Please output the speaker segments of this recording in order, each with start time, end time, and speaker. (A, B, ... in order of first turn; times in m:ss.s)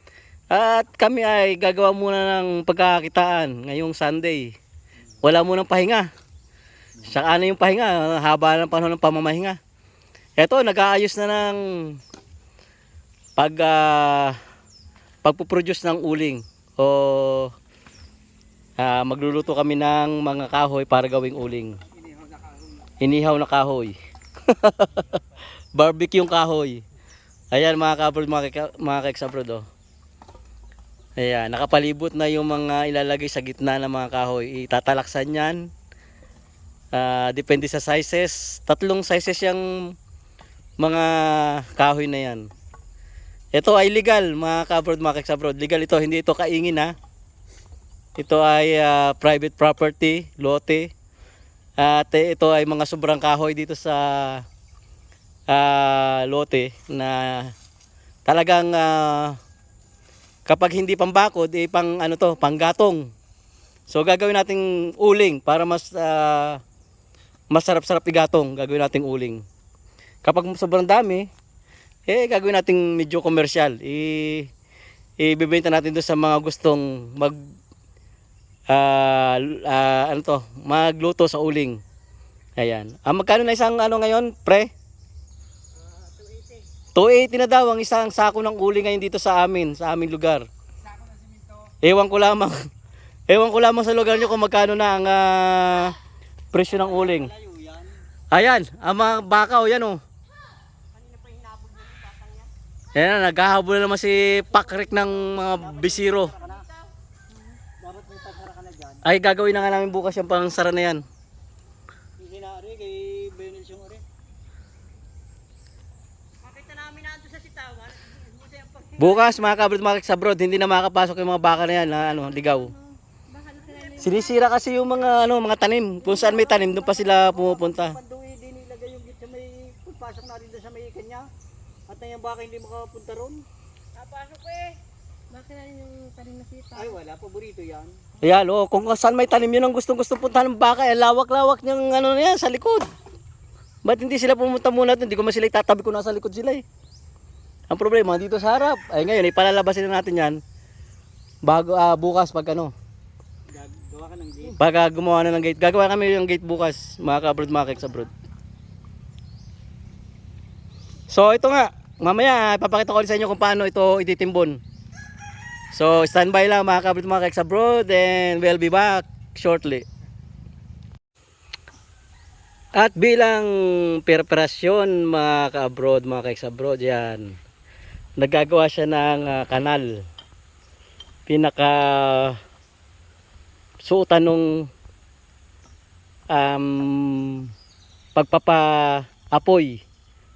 0:00.5-0:04.5 A
0:05.2-0:06.1 A
0:07.0-0:09.6 A
0:10.4-0:12.0 A
0:13.4-0:14.4 A
0:15.2-0:17.5 A
0:18.8-0:21.8 A
0:23.0-0:24.0 A
0:24.5-0:25.2 A
0:25.7-0:26.8 A
0:27.5-0:29.6 A
0:31.2-0:35.7 A
0:36.9-0:39.9 A
0:40.8-0:42.5 A
0:43.5-0:46.9 A
0:48.2-0:50.9 A
0:51.8-0:54.4 A
0:55.5-0:57.5 A
0:58.2-0:59.4 A
1:00.5-1:03.1 A
1:03.9-1:06.6 A
1:07.5-1:09.4 A
1:10.2-1:11.3 A
1:12.1-1:14.5 A
1:15.2-1:17.4 A
1:18.7-1:21.8 A
1:22.6-1:24.7 A
1:26.0-1:26.6 B
1:26.9-1:30.4 A
1:31.8-1:32.6 A
1:33.3-1:36.0 A
1:36.5-1:37.3 A
1:36.7-1:37.9 B
1:38.3-1:40.0 A
1:40.9-1:42.5 B
1:42.9-1:46.3 A
1:44.6-1:46.8 B
1:47.8-1:49.0 B
1:49.0-1:51.0 A
1:52.2-1:54.0 B
1:56.4-1:59.5 B
1:59.0-2:02.7 A
2:03.3-2:04.2 C
2:03.6-2:04.0 B
2:04.0-2:08.0 A
2:06.6-2:11.3 B
2:11.9-2:14.8 B
2:15.3-2:16.9 C
2:16.7-2:17.9 B
2:18.2-2:22.9 A
2:23.8-2:26.6 A
2:27.7-2:30.4 A
2:31.4-2:32.7 A
2:33.6-2:34.5 B
2:34.5-2:38.1 A
2:41.1-2:44.6 A
2:45.7-2:49.8 A
2:52.7-2:57.4 A
2:58.2-3:00.0 A
3:01.3-3:02.4 A
3:03.8-3:04.7 A
3:06.3-3:07.5 A
3:08.2-3:09.8 A